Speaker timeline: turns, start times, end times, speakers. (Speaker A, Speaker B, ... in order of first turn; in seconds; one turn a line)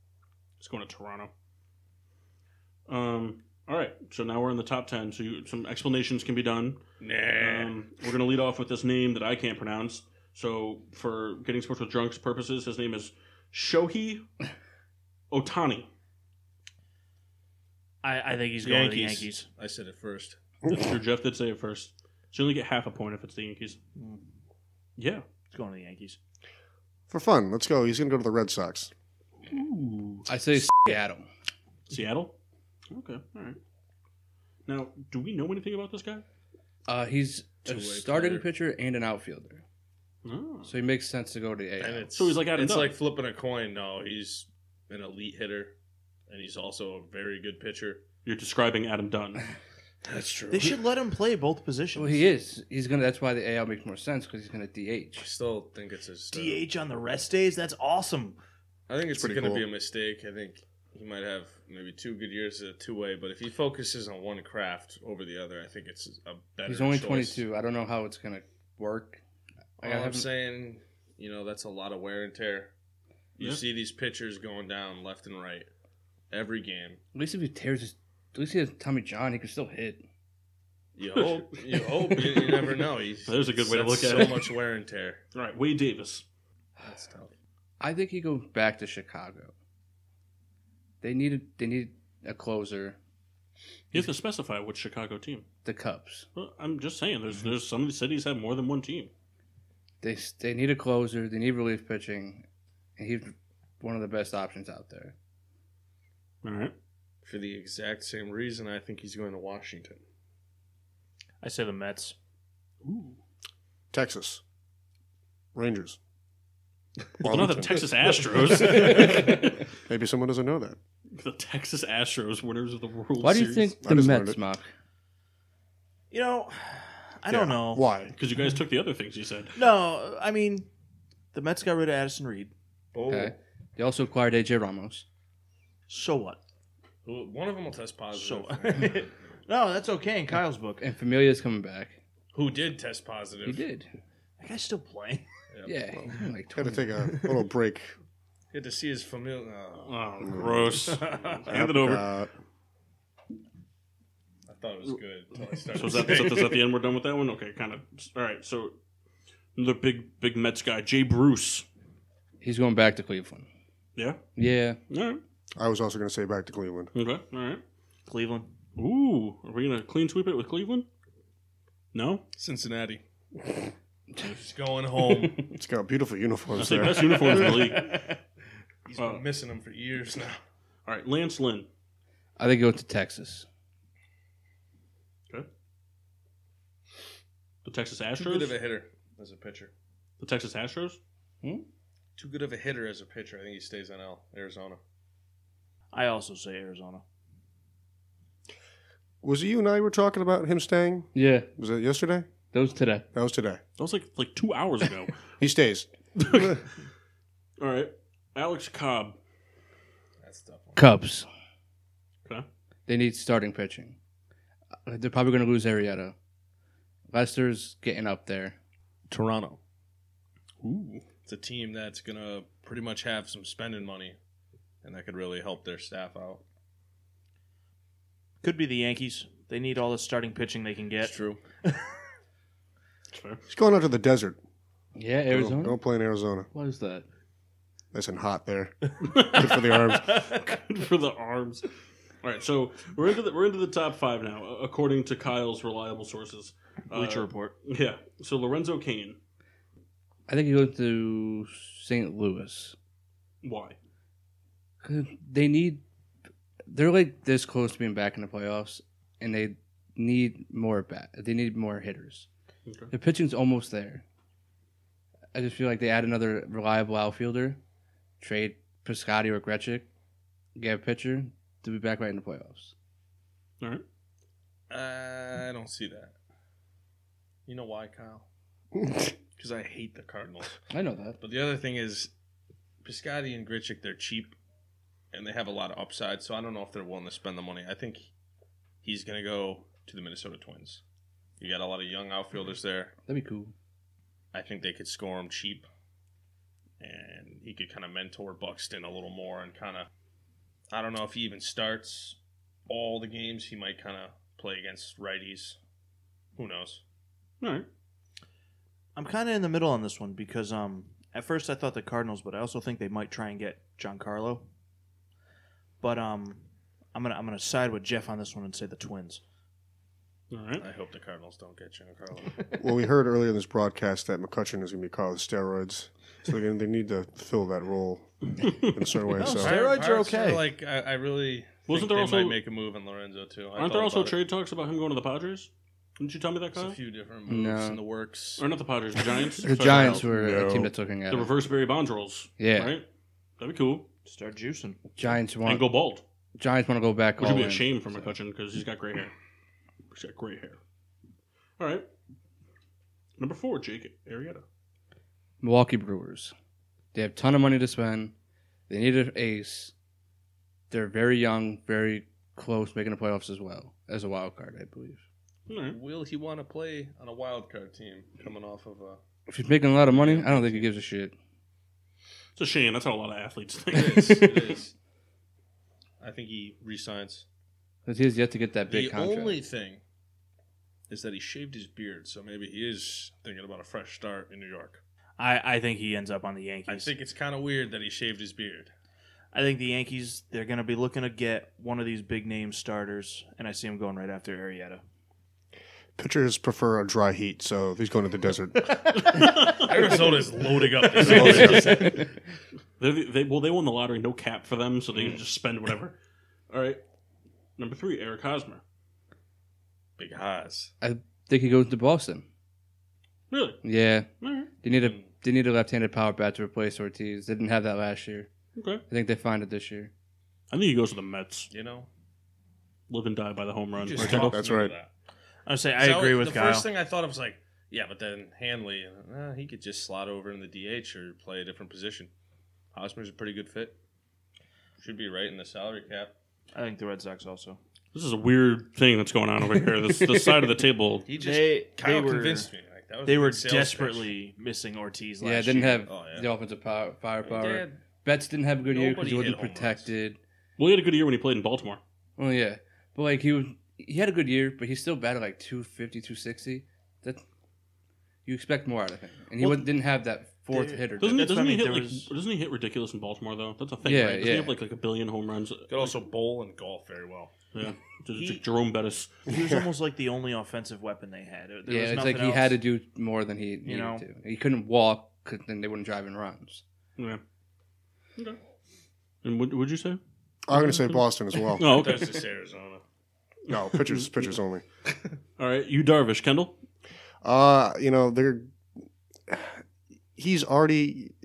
Speaker A: 0.6-1.3
Speaker A: 2.9-6.8
Speaker B: 7.0-7.8
Speaker A: 7.3-14.2
Speaker A: 15.3-15.9
Speaker C: 18.0-19.5
Speaker B: 18.6-20.4
Speaker A: 20.7-23.8
Speaker A: 25.0-25.2
Speaker C: 25.5-26.2
Speaker D: 27.1-28.9
Speaker A: 29.4-30.3
Speaker E: 30.3-31.3
Speaker A: 31.9-32.4
Speaker A: 32.9-33.6
Speaker A: 34.7-36.2
Speaker E: 36.9-39.6
Speaker B: 37.6-38.5
Speaker A: 40.2-40.7
Speaker E: 40.7-42.1
Speaker B: 41.8-45.7
Speaker A: 42.1-43.0
Speaker B: 46.3-48.0
Speaker A: 48.2-49.5
Speaker B: 50.0-50.8
Speaker C: 50.5-52.3
Speaker E: 52.0-55.3
Speaker B: 55.2-56.7
Speaker C: 56.3-58.4
Speaker B: 58.9-67.4
Speaker D: 59.1-59.6
Speaker E: 66.7-69.2
Speaker E: 69.8-70.3
Speaker B: 69.8-72.7
Speaker B: 73.4-75.7
Speaker B: 76.3-77.0
Speaker E: 77.1-80.0
Speaker B: 81.0-85.2
Speaker A: 81.2-84.6
Speaker A: 85.3-86.2
Speaker B: 86.8-87.3
Speaker E: 87.8-89.5
Speaker E: 91.0-93.0
Speaker A: 93.9-95.5
Speaker E: 95.7-96.3
Speaker A: 96.3-99.1
Speaker E: 100.0-102.5
Speaker E: 103.0-105.2
Speaker A: 106.4-106.7
Speaker B: 107.2-110.0
Speaker C: 111.4-112.2
Speaker A: 112.8-113.2
Speaker D: 113.9-114.4
Speaker D: 115.5-116.0
Speaker D: 117.2-118.1
Speaker A: 117.2-119.7
Speaker D: 119.0-120.8
Speaker A: 121.1-123.8
Speaker E: 123.2-124.7
Speaker D: 123.8-124.4
Speaker C: 126.1-127.9
Speaker D: 127.3-128.1
Speaker A: 128.1-129.6
Speaker C: 129.6-130.7
Speaker C: 131.3-132.5
Speaker B: 132.9-133.4
Speaker E: 133.1-135.0
Speaker C: 135.9-136.4
Speaker B: 137.1-139.1
Speaker C: 138.1-140.8
Speaker E: 140.8-142.0
Speaker B: 142.3-143.6
Speaker E: 143.4-143.9
Speaker C: 144.4-145.3
Speaker E: 145.7-146.9
Speaker D: 146.5-147.9
Speaker C: 147.1-147.4
Speaker B: 148.5-150.0
Speaker A: 149.8-152.1
Speaker D: 150.3-150.7
Speaker C: 151.1-151.4
Speaker D: 151.5-152.3
Speaker B: 154.5-156.6
Speaker A: 155.7-158.8
Speaker A: 159.6-161.7
Speaker E: 162.4-163.5
Speaker A: 164.0-164.2
Speaker E: 164.4-164.8
Speaker A: 164.9-165.2
Speaker D: 165.6-166.9
Speaker A: 166.9-167.6
Speaker C: 168.1-168.5
Speaker A: 168.8-170.9
Speaker A: 171.9-172.2
Speaker B: 172.4-173.0
Speaker B: 174.2-175.5
Speaker E: 175.1-175.4
Speaker D: 175.5-177.4
Speaker A: 176.6-178.0
Speaker C: 177.3-178.0
Speaker B: 178.9-180.4
Speaker A: 179.0-179.2
Speaker A: 180.9-181.7
Speaker E: 182.4-183.5
Speaker A: 187.7-188.6
Speaker B: 188.2-189.7
Speaker A: 190.2-191.0
Speaker B: 192.2-194.8
Speaker C: 195.9-197.0
Speaker D: 199.2-202.3
Speaker E: 201.1-201.5
Speaker E: 202.5-203.1
Speaker D: 203.1-203.6
Speaker A: 203.8-205.2
Speaker D: 205.4-206.6
Speaker A: 206.2-206.6
Speaker A: 207.6-209.2
Speaker B: 210.2-210.9
Speaker E: 210.8-211.3
Speaker E: 212.9-214.0
Speaker E: 214.9-216.2
Speaker E: 217.1-218.6
Speaker B: 219.1-219.6
Speaker A: 220.6-221.1
Speaker B: 221.2-224.2
Speaker B: 224.8-226.4
Speaker C: 228.4-231.9
Speaker B: 231.0-231.4
Speaker A: 233.1-233.4
Speaker D: 233.5-234.4
Speaker E: 234.9-235.8
Speaker D: 235.3-236.5
Speaker E: 236.5-237.1
Speaker D: 237.9-240.3
Speaker A: 239.0-241.7
Speaker A: 242.2-249.2
Speaker C: 246.9-247.6
Speaker E: 250.3-252.8
Speaker A: 253.4-253.8
Speaker E: 254.8-255.8
Speaker E: 256.7-262.3
Speaker A: 262.7-262.9
Speaker E: 262.9-264.0
Speaker E: 265.3-267.6
Speaker E: 268.2-269.9
Speaker E: 270.6-272.7
Speaker B: 274.7-276.1
Speaker B: 277.5-278.2
Speaker B: 279.4-280.6
Speaker E: 280.7-281.2
Speaker B: 281.2-282.1
Speaker B: 282.8-284.4
Speaker B: 285.1-288.1
Speaker B: 288.8-290.8
Speaker B: 291.4-292.9
Speaker E: 293.1-293.5
Speaker B: 294.3-295.7
Speaker B: 296.8-299.9
Speaker B: 300.7-305.6
Speaker B: 306.4-306.8
Speaker A: 307.4-307.7
Speaker C: 308.9-314.4
Speaker C: 315.8-316.4
Speaker C: 316.9-319.2
Speaker A: 320.3-320.6
Speaker B: 320.6-322.5
Speaker D: 322.6-329.6
Speaker A: 328.4-328.8
Speaker C: 329.2-330.5
Speaker B: 329.3-334.2
Speaker A: 331.7-332.4
Speaker A: 333.6-336.8
Speaker B: 336.6-338.4
Speaker E: 337.3-337.8
Speaker A: 338.4-340.1
Speaker D: 339.4-340.7
Speaker E: 339.4-341.3
Speaker A: 341.1-342.9
Speaker E: 342.4-342.8
Speaker A: 343.4-343.9
Speaker C: 344.1-344.8
Speaker E: 345.0-345.7
Speaker A: 345.4-346.0
Speaker E: 346.4-348.1
Speaker A: 347.2-349.1
Speaker A: 349.9-350.6
Speaker A: 351.6-351.9
Speaker A: 353.2-354.4
Speaker E: 355.4-356.3
Speaker E: 356.9-358.1
Speaker E: 358.7-359.7
Speaker E: 360.7-365.0
Speaker A: 365.5-365.8
Speaker B: 365.7-369.0
Speaker E: 369.3-371.1
Speaker B: 369.9-370.7
Speaker A: 372.4-374.4
Speaker B: 373.7-374.7
Speaker B: 376.0-377.3
Speaker E: 377.9-379.4
Speaker B: 378.7-379.8
Speaker B: 380.9-384.8
Speaker C: 385.2-386.9
Speaker B: 386.7-388.7
Speaker C: 389.3-394.8
Speaker D: 396.0-399.2
Speaker A: 399.0-399.7
Speaker B: 399.5-402.0
Speaker D: 401.0-402.0
Speaker A: 401.0-402.0
Speaker A: 402.8-406.0
Speaker A: 406.5-406.8
Speaker A: 407.6-408.6
Speaker B: 410.0-410.7
Speaker E: 410.8-412.3
Speaker A: 413.3-413.6
Speaker E: 413.6-414.1
Speaker A: 414.2-414.5
Speaker E: 414.6-418.3
Speaker B: 414.8-415.1
Speaker A: 418.6-418.8
Speaker E: 418.9-419.9
Speaker A: 420.5-421.5
Speaker B: 421.5-421.9
Speaker A: 422.9-424.4
Speaker B: 423.8-424.9
Speaker D: 424.0-424.8
Speaker C: 425.5-426.7
Speaker B: 425.8-432.1
Speaker B: 432.7-433.8
Speaker B: 434.8-436.1
Speaker C: 436.5-437.6
Speaker A: 437.9-441.1
Speaker B: 441.1-444.1
Speaker C: 441.2-442.5
Speaker C: 443.1-445.8
Speaker E: 445.2-450.2
Speaker B: 445.9-446.3
Speaker B: 447.2-447.8
Speaker B: 448.6-449.9
Speaker A: 450.6-451.8
Speaker E: 452.2-457.2
Speaker E: 458.3-461.4
Speaker C: 459.4-459.7
Speaker C: 460.5-462.1
Speaker A: 461.0-465.9
Speaker E: 463.8-464.6
Speaker B: 465.7-467.3
Speaker A: 467.5-469.1
Speaker C: 468.1-468.4
Speaker C: 469.3-472.6
Speaker E: 471.7-476.6
Speaker C: 473.6-474.1
Speaker A: 477.0-477.2
Speaker A: 479.2-480.0
Speaker D: 480.5-481.8
Speaker A: 480.6-481.0
Speaker A: 481.5-482.2
Speaker B: 481.6-482.8
Speaker D: 483.5-484.6
Speaker A: 483.5-484.3
Speaker A: 485.4-486.6
Speaker D: 487.2-488.5
Speaker D: 489.3-489.6
Speaker D: 490.2-491.2